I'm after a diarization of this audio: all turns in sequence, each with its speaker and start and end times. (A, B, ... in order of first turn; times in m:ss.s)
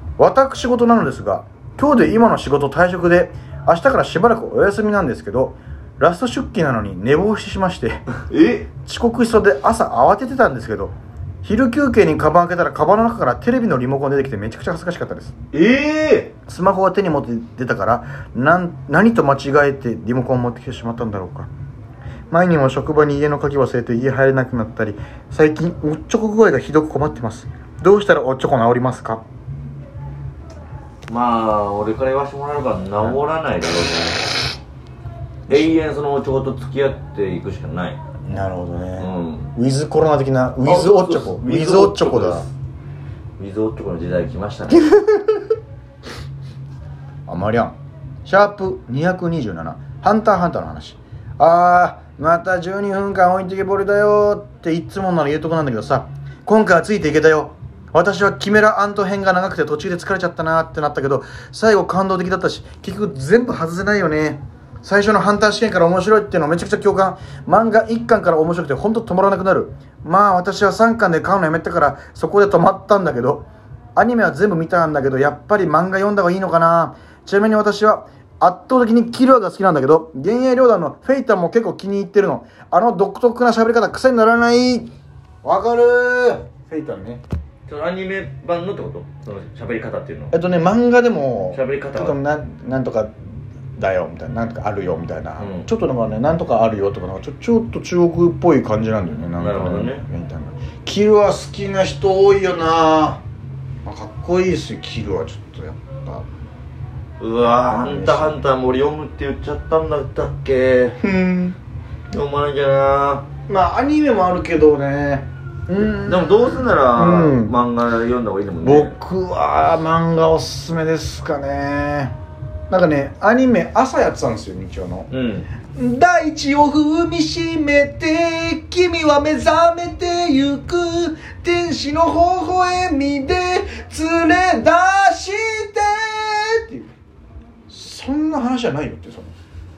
0:00.2-0:08.0 A
0:08.2-0:08.7 B
0:08.8-0:15.3 A
0:15.5-0:16.3 B
0:16.5-0:21.5 A
0:22.3-0:29.2 A
0:31.1-0:34.2 B
0:35.5-0:38.0 B
0:38.2-0:42.5 A
0:39.0-0:39.5 B
0:40.6-0:42.5 B
0:43.4-0:45.2 B
0:47.3-1:24.9 A
1:25.4-1:27.2 A
1:27.7-1:30.4 B
1:30.3-1:33.2 A
1:31.5-1:32.2 B
1:33.8-1:43.2 A
1:35.4-1:35.7 B
1:39.4-1:40.0 B
1:43.8-1:46.2 A
1:47.2-1:51.0 B
1:47.5-1:48.4 A
1:51.0-1:51.6 A
1:52.1-1:53.2 B
1:53.5-1:57.6 A
1:56.0-1:58.9 B
1:58.6-2:02.1 A
2:02.7-2:05.1 A
2:05.1-2:05.5 B
2:05.7-2:16.9 A
2:17.7-2:19.3 A